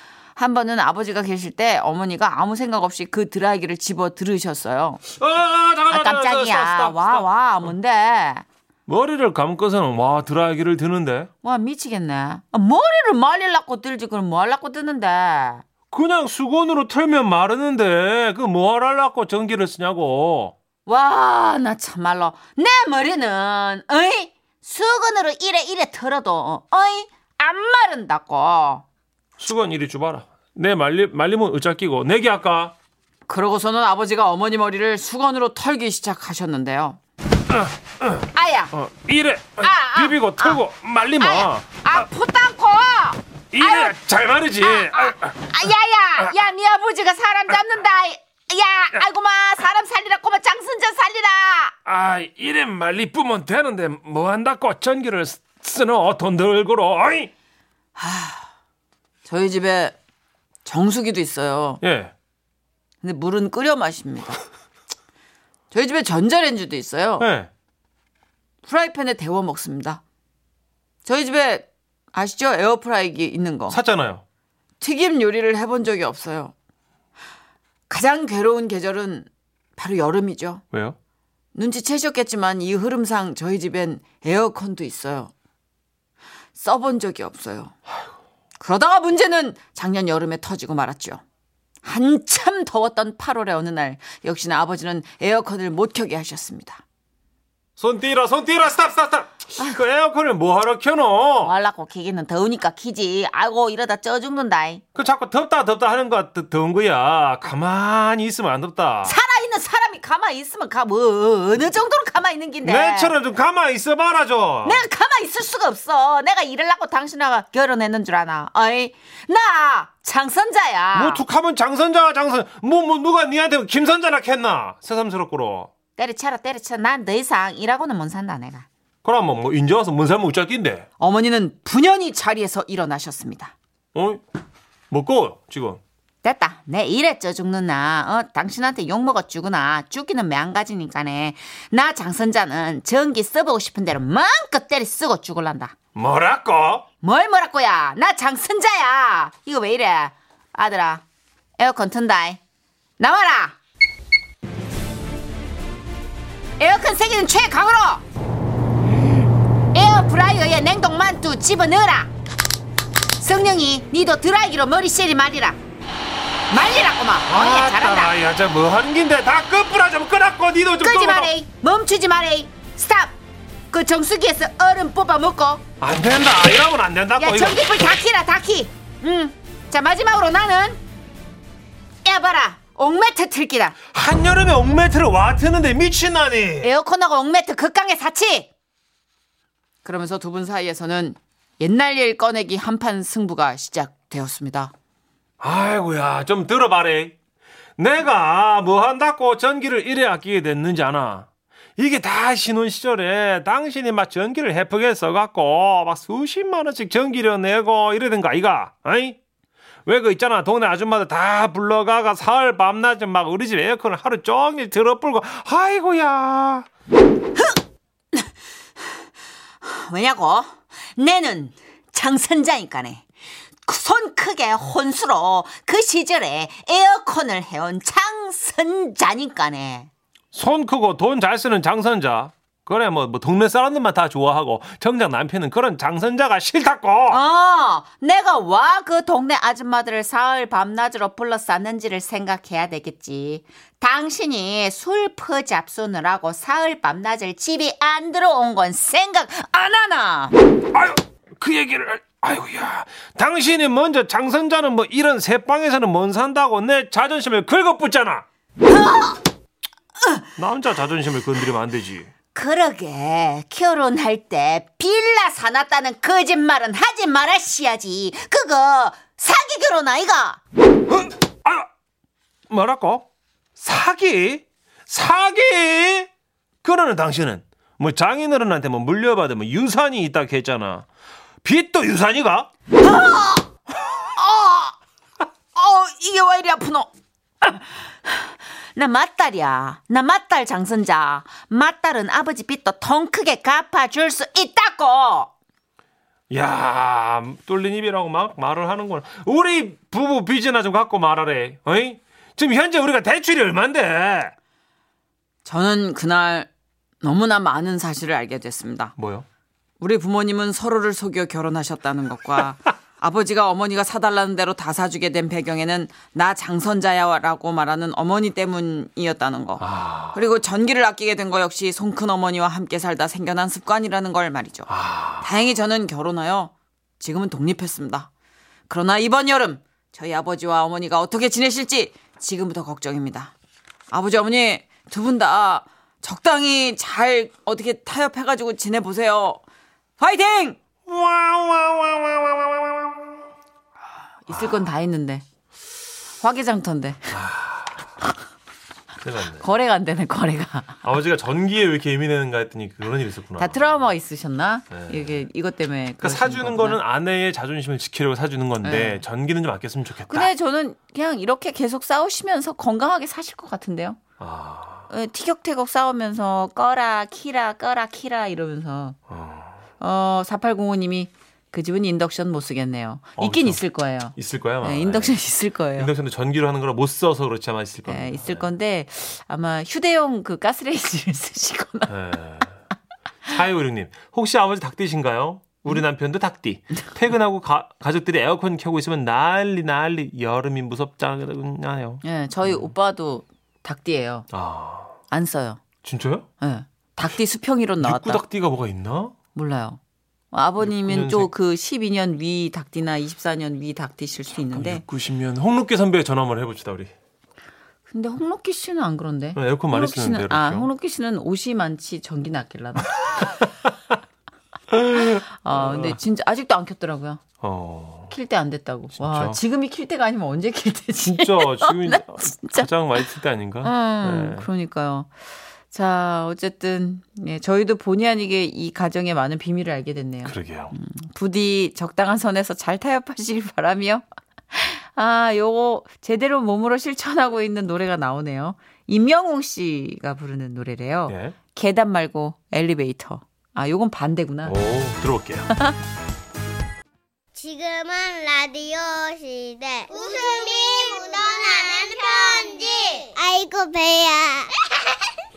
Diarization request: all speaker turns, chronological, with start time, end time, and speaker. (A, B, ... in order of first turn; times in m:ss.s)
0:00.4-0:05.0 A
0:05.1-0:07.3 B
0:05.9-0:08.5 A
0:08.9-0:11.3 B
0:11.4-0:15.6 A
0:15.9-0:20.5 B
0:20.8-0:28.8 A
0:29.4-0:32.7 B
0:33.3-0:37.0 A
0:37.5-0:41.8 B
0:38.3-0:38.7 A
0:39.6-0:40.6 A
0:41.2-0:44.0 A
0:43.5-0:45.5 B
0:44.6-0:51.8 A
0:51.9-0:57.3 B
0:58.0-0:58.5 A
0:59.2-1:00.0 A
1:00.6-1:01.8 A
1:01.8-1:02.1 B
1:03.0-1:04.4 A
1:05.7-1:07.3 A
1:07.2-1:07.5 B
1:08.6-1:10.0 A
1:11.0-1:13.8 A
1:13.7-1:14.2 B
1:14.8-1:16.5 A
1:17.9-1:20.6 A
1:20.7-1:21.0 B
1:21.5-1:25.3 A
1:26.6-1:27.8 A
1:28.6-1:31.2 A
1:31.8-1:36.8 A
1:37.8-1:41.5 B
1:41.4-1:44.8 A
1:45.0-1:49.2 B
1:49.0-1:53.2 A
1:52.6-1:54.9 B
1:54.6-2:01.2 A
2:00.9-2:05.7 B
2:06.0-2:08.7 A
2:09.0-2:10.9 B
2:11.0-2:13.5 A
2:13.9-2:14.2 B
2:14.9-2:15.8 B
2:16.2-2:25.7 A
2:26.0-2:26.8 B
2:27.0-2:31.0 A
2:31.6-2:32.4 A
2:33.0-2:33.6 A
2:36.6-2:38.0 A
2:39.7-2:42.1 A
2:43.2-2:45.6 A
2:46.5-2:48.1 A
2:47.3-2:51.3 B
2:50.8-2:53.2 A
2:53.7-2:55.6 A
2:55.8-2:57.8 B
2:57.2-3:00.8 A
3:02.0-3:03.8 A
3:03.9-3:06.7 B
3:06.6-3:08.5 A
3:09.8-3:14.7 A
3:15.4-3:17.2 B
3:17.8-3:29.2 B
3:29.8-3:36.7 B
3:39.6-3:43.0 A
3:43.6-3:49.9 A
3:50.3-3:57.2 B
3:57.1-4:10.3 A
4:10.7-4:18.2 B
4:18.6-4:19.2 A
4:20.4-4:22.1 B
4:22.3-4:30.4 A
4:31.0-4:31.7 B
4:32.5-4:36.1 B
4:36.6-4:40.9 B
4:41.4-4:42.5 B
4:42.8-4:44.8 A
4:45.6-4:46.9 A
4:47.4-4:55.3 A
4:56.3-5:04.3 B
5:05.4-5:06.5 A
5:07.0-5:08.9 A
5:09.0-5:09.3 B
5:09.8-5:28.1 A
5:19.6-5:20.2 B
5:24.7-5:25.3 B
5:28.7-5:33.3 A
5:33.9-5:39.4 A
5:40.0-5:40.6 A
5:40.9-5:43.0 B
5:44.2-5:45.2 A
5:46.2-5:47.2 A
5:47.1-5:47.9 B
5:49.0-5:49.4 B
5:49.4-5:50.8 A
5:50.8-5:53.8 B
5:53.4-5:56.8 A
5:54.7-5:55.1 B
5:56.0-6:00.3 B
5:58.6-5:59.0 A
6:00.1-6:04.0 A
6:04.2-6:04.9 B
6:04.9-6:09.0 A
6:09.1-6:09.6 B
6:09.8-6:15.9 A
6:13.2-6:13.6 B
6:14.2-6:15.2 B
6:15.8-6:18.5 B
6:17.9-6:21.9 A
6:21.9-6:22.6 B
6:23.2-6:32.7 B
6:32.0-6:34.3 A
6:34.3-6:35.0 B
6:35.1-6:35.6 A
6:35.8-6:36.3 B
6:36.4-6:38.2 A
6:37.8-6:39.1 B
6:39.4-6:39.8 A
6:40.3-6:44.8 A
6:40.6-6:41.3 B
6:44.4-6:46.9 B
6:47.9-6:53.2 A
6:49.4-6:50.7 B
6:54.7-6:56.0 B
6:55.0-6:57.2 A
6:57.4-6:58.1 B
6:58.1-7:02.7 A
6:59.0-6:59.4 B
7:01.0-7:04.5 B
7:03.6-7:05.1 A
7:05.7-7:24.6 A
7:10.2-7:10.7 B
7:21.1-7:21.4 B
7:24.4-7:25.5 B
7:27.4-7:34.8 C